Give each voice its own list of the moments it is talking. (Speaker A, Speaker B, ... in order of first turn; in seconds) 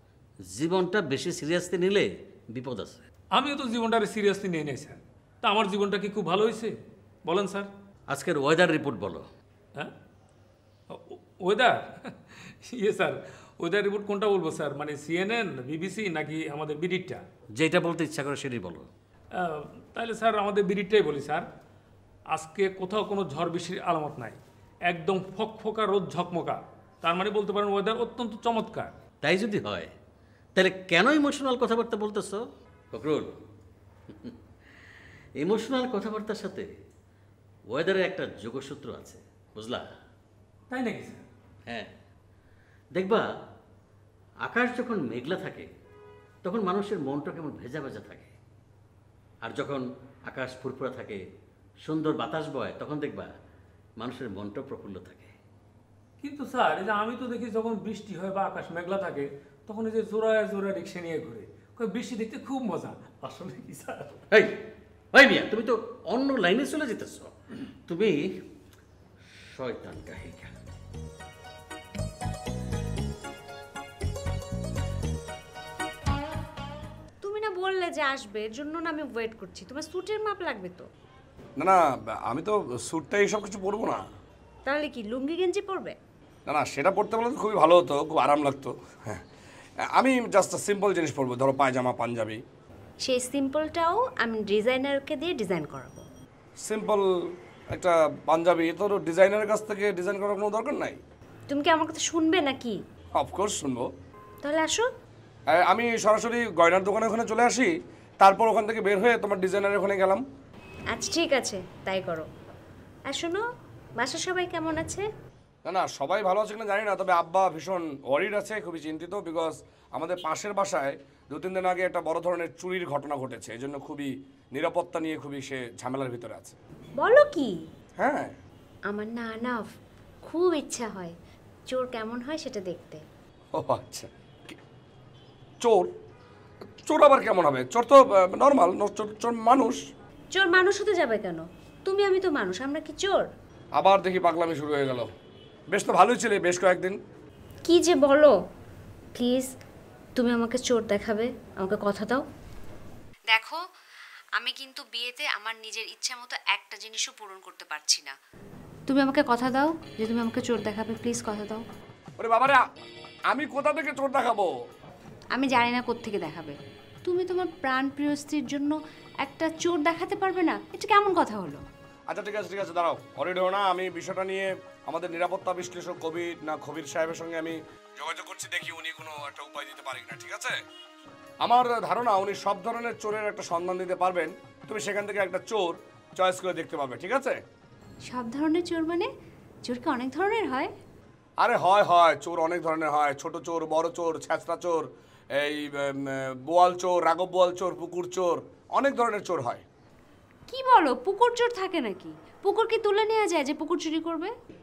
Speaker A: 0.5-3.0, 8.1-9.2, 17.6-18.9, 29.2-29.9, 30.6-32.4, 32.9-33.4, 35.4-36.7, 37.7-39.8, 42.9-43.2, 44.4-45.7, 46.4-48.3, 49.4-51.2, 51.8-53.3, 54.0-55.3, 65.1-67.3, 67.9-68.2, 69.5-70.5
Speaker B: 3.4-6.7, 7.3-7.7, 11.4-11.7, 12.8-17.2, 19.9-21.4, 22.3-24.4, 24.9-28.9, 40.7-41.2, 56.2-64.1
Speaker C: 77.2-80.9, 84.7-86.0, 93.0-96.0, 101.5-102.8, 104.4-104.8, 110.9-112.3, 113.1-113.4, 114.0-115.0, 127.0-127.6, 128.9-129.7, 130.2-131.1, 131.7-133.0, 140.3-143.3, 147.7-148.3, 149.2-149.5, 150.2-152.2, 153.3-153.6, 154.4-158.1, 158.9-161.6, 165.3-166.5, 167.0-171.6, 188.1-189.1, 189.6-190.7, 200.5-204.3
Speaker D: 81.6-84.0, 86.5-89.2, 90.0-92.4, 96.6-97.0, 97.7-101.0, 103.1-103.9, 105.5-107.7, 108.2-110.2, 115.6-126.6, 128.0-128.3, 133.5-134.6, 135.6-135.9, 136.8-139.8, 143.7-145.1, 145.7-147.0, 162.2-162.6, 163.3-164.5, 172.1-180.6, 181.4-187.4, 191.4-199.6